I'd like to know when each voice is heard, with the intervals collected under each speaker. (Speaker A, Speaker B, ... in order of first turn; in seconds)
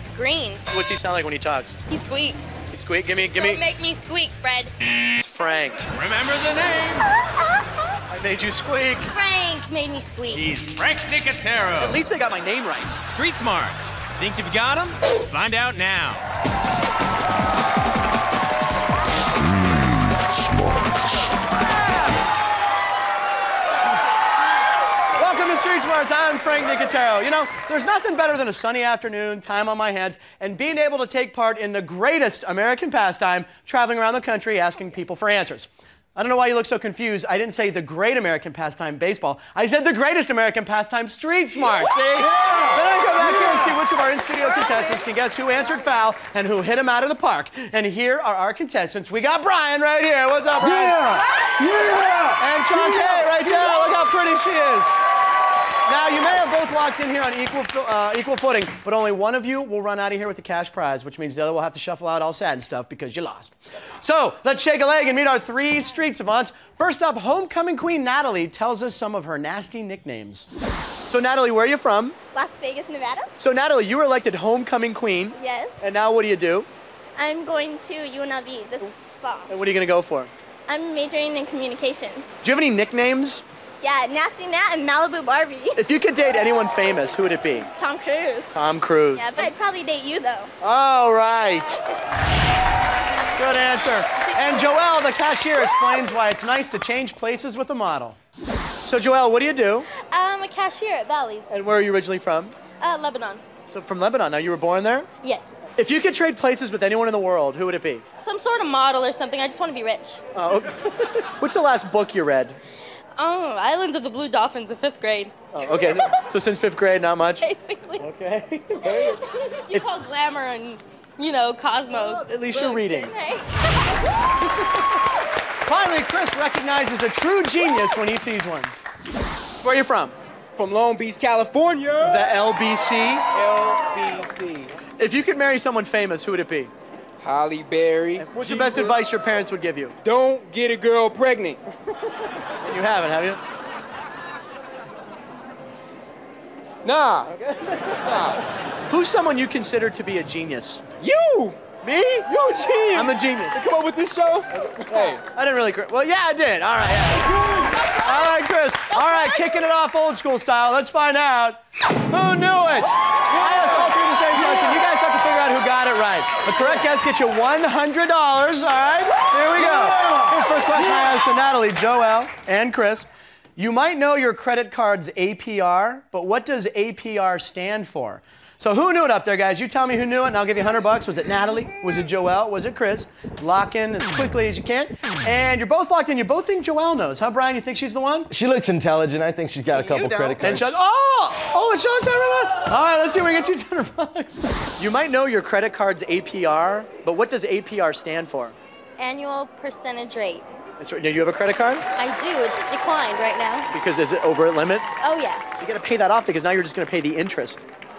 Speaker A: 0.1-0.7, 1.9-2.5, 3.4-4.7, 9.1-10.4, 100.1-101.5, 102.8-103.4, 108.2-110.2, 113.2-116.1, 117.4-118.0, 118.8-123.4, 199.0-200.5, 202.0-203.7, 205.0-205.4
Speaker B: 0.7-1.8, 2.7-3.6, 5.1-5.8, 8.1-9.1, 11.8-12.9, 25.2-51.2, 52.4-55.0, 55.9-70.5, 71.1-72.2, 73.4-76.7, 79.5-80.3, 82.4-83.4, 85.8-87.7, 88.5-89.5, 90.6-91.8, 93.4-98.2, 98.8-99.9, 101.5-102.6, 103.7-105.1, 105.8-108.0, 110.3-112.6, 115.5-117.5, 118.0-119.2, 122.0-123.1, 125.7-128.7, 129.6-130.2, 132.0-133.3, 135.0-136.7, 138.2-140.0, 142.6-143.4, 147.4-147.7, 148.9-150.8, 151.8-152.3, 152.9-153.6, 154.9-188.3, 190.4-198.6, 200.8-201.8, 203.7-204.9, 205.6-207.6
Speaker C: 5.9-7.1, 10.3-12.0, 13.0-16.2
Speaker D: 72.3-73.3, 75.4-75.8, 77.2-79.5, 80.7-82.3, 83.8-85.8, 87.8-88.5, 89.2-90.5, 189.8-190.3
Speaker E: 130.6-132.2, 133.3-134.7, 137.2-138.9, 140.0-141.6, 146.8-147.4, 148.1-148.4, 151.0-151.6, 152.3-155.2
Speaker F: 188.3-190.7